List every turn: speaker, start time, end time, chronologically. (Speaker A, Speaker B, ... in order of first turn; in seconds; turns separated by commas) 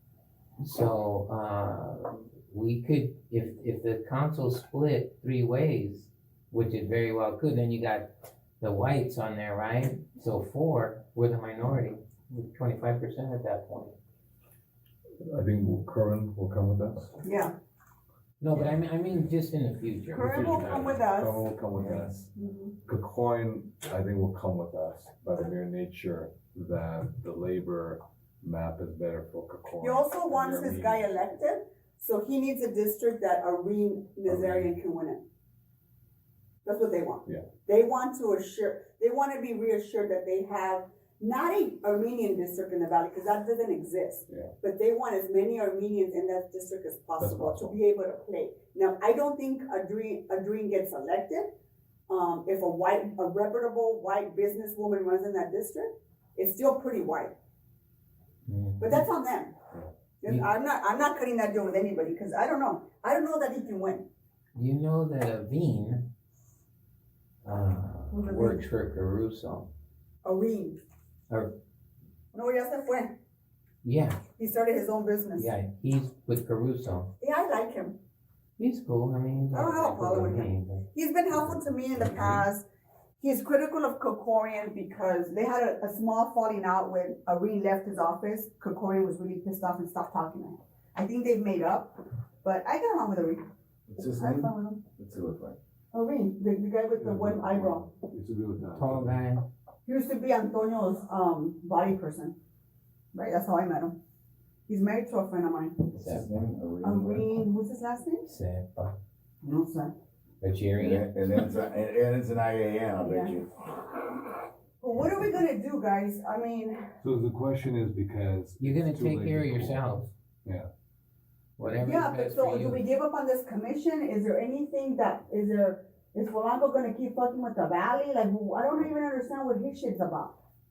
Speaker A: 0.6-14.0, Speaker B: 15.2-17.2, Speaker C: 17.2-17.5, Speaker A: 18.4-21.0, Speaker B: 18.5-19.3, Speaker C: 20.1-21.4, Speaker B: 20.2-22.3, Speaker A: 21.8-22.0, Speaker C: 22.4-22.7, Speaker B: 22.9-31.2, Speaker C: 29.8-35.2, Speaker B: 34.3-34.8, Speaker C: 36.6-51.5, Speaker B: 47.2-47.8, Speaker C: 52.1-57.4, Speaker A: 58.5-59.0, Speaker C: 58.8-59.5, Speaker C: 60.2-64.1, Speaker A: 64.5-66.0, Speaker A: 67.5-69.7, Speaker C: 68.1-68.6, Speaker C: 70.2-70.8, Speaker C: 72.3-73.2, Speaker A: 73.8-74.2, Speaker C: 74.4-75.5, Speaker A: 75.4-77.1, Speaker C: 77.2-78.0, Speaker A: 78.6-82.5, Speaker C: 79.5-82.7, Speaker C: 83.2-93.4, Speaker D: 93.9-95.6, Speaker C: 94.0-94.8, Speaker C: 95.9-97.9, Speaker B: 96.9-99.2, Speaker A: 98.7-99.5, Speaker C: 99.9-102.4, Speaker C: 103.1-104.0, Speaker C: 104.7-105.9, Speaker D: 105.9-107.5, Speaker C: 106.8-108.3, Speaker A: 108.2-109.0, Speaker C: 109.4-109.9, Speaker A: 110.4-111.1, Speaker D: 110.8-113.5, Speaker C: 113.0-113.4, Speaker C: 114.8-116.8, Speaker B: 117.0-119.9, Speaker A: 118.6-120.1, Speaker A: 121.6-122.9, Speaker C: 121.8-130.4